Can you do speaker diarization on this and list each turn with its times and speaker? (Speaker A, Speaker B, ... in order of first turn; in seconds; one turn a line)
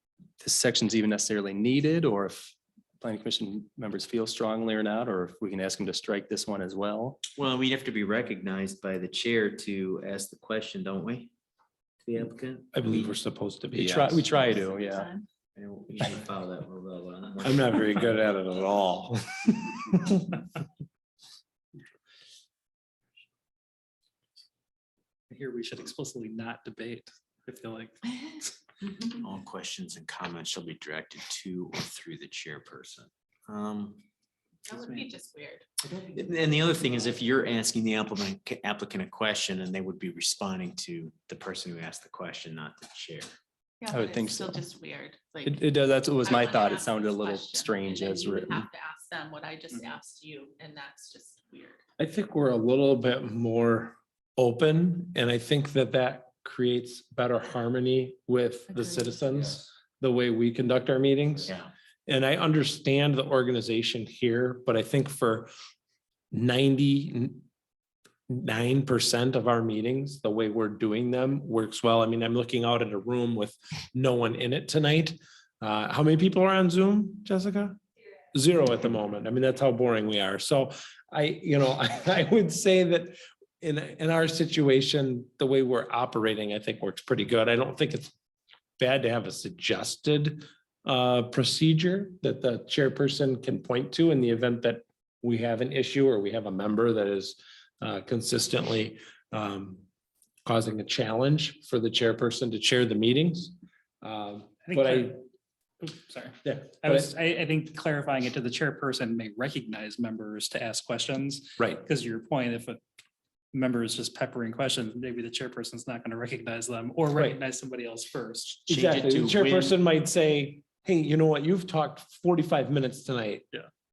Speaker A: 0.4-7.2
Speaker B: 7.4-11.3
Speaker B: 12.0-13.1
Speaker C: 12.7-14.3
Speaker A: 13.7-15.1
Speaker D: 14.3-15.3
Speaker B: 15.6-18.0
Speaker C: 17.4-20.3
Speaker E: 25.3-28.1
Speaker D: 28.8-29.1
Speaker B: 29.1-34.0
Speaker D: 34.7-35.7
Speaker E: 34.7-35.0
Speaker B: 35.9-43.3
Speaker D: 43.8-51.8
Speaker A: 43.9-44.6
Speaker A: 45.4-48.6
Speaker C: 52.0-61.5
Speaker D: 58.7-59.2
Speaker B: 61.5-61.7
Speaker C: 62.1-65.5
Speaker C: 66.3-67.4
Speaker C: 68.3-77.8
Speaker C: 78.3-88.1
Speaker C: 88.8-99.8
Speaker C: 100.5-105.2
Speaker E: 104.7-105.2
Speaker E: 105.8-112.8
Speaker C: 106.4-107.1
Speaker E: 113.5-118.7
Speaker C: 117.1-117.4
Speaker C: 118.7-123.5
Speaker B: 118.7-119.8